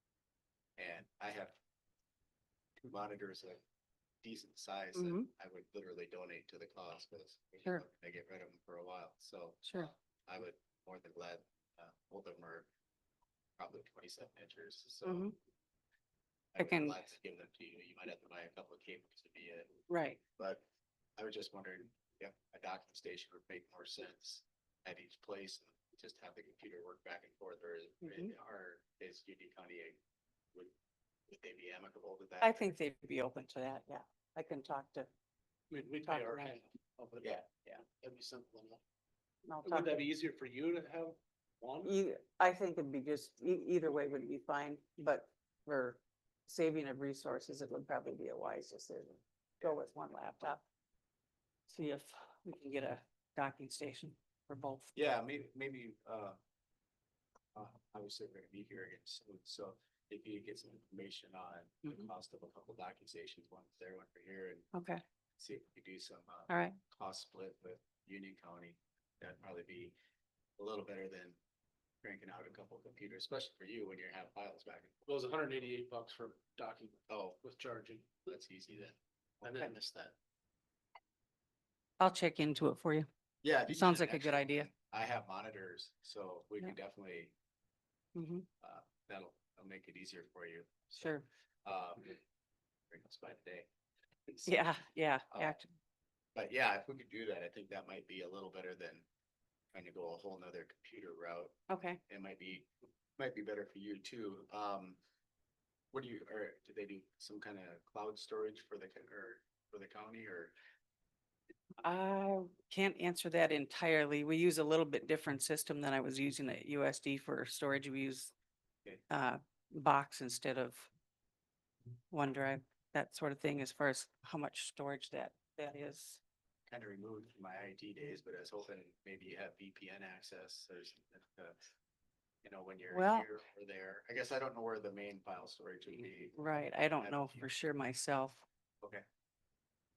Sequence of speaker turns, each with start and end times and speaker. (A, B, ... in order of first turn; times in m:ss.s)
0:00.8-0:01.6 A
0:02.8-0:03.6 A
0:04.2-0:12.7 A
0:04.9-0:05.2 B
0:09.6-0:09.9 B
0:13.6-0:15.3 A
0:15.0-0:15.3 B
0:16.5-0:19.8 A
0:16.6-0:17.0 B
0:19.9-0:20.2 B
0:20.4-0:20.6 A
0:21.2-0:30.0 A
0:28.0-0:28.3 B
0:31.3-0:32.7 A
0:32.4-0:35.1 B
0:35.7-0:37.4 C
0:36.0-0:36.5 B
0:37.2-0:37.8 A
0:38.0-0:38.8 C
0:39.5-0:40.0 B
0:39.6-0:41.9 C
0:41.8-0:50.6 B
0:51.7-0:54.9 B
0:54.9-0:56.4 A
0:57.5-1:04.7 A
1:04.7-1:05.0 B
1:05.4-1:09.9 A
1:06.5-1:06.8 B
1:10.6-1:11.4 A
1:12.0-1:15.0 A
1:15.0-1:18.1 C
1:17.1-1:17.4 A
1:18.2-1:19.5 A
1:19.4-1:20.1 C
1:22.0-1:23.1 B
1:23.4-1:27.3 A
1:23.7-1:24.7 B
1:28.1-1:28.5 B
1:28.6-1:32.2 A
1:32.9-1:33.7 A
1:34.3-1:34.6 A
1:34.4-1:35.7 B
1:35.3-1:35.6 A
1:36.3-1:39.0 A
1:39.7-1:45.0 A
1:41.7-1:42.0 B
1:45.9-1:50.5 A
1:51.8-1:58.3 B
1:59.1-2:00.9 B
2:02.1-2:06.2 B
2:06.7-2:11.6 A
2:12.4-2:16.4 A
2:12.9-2:13.2 B
2:16.4-2:18.4 B
2:17.0-2:17.5 A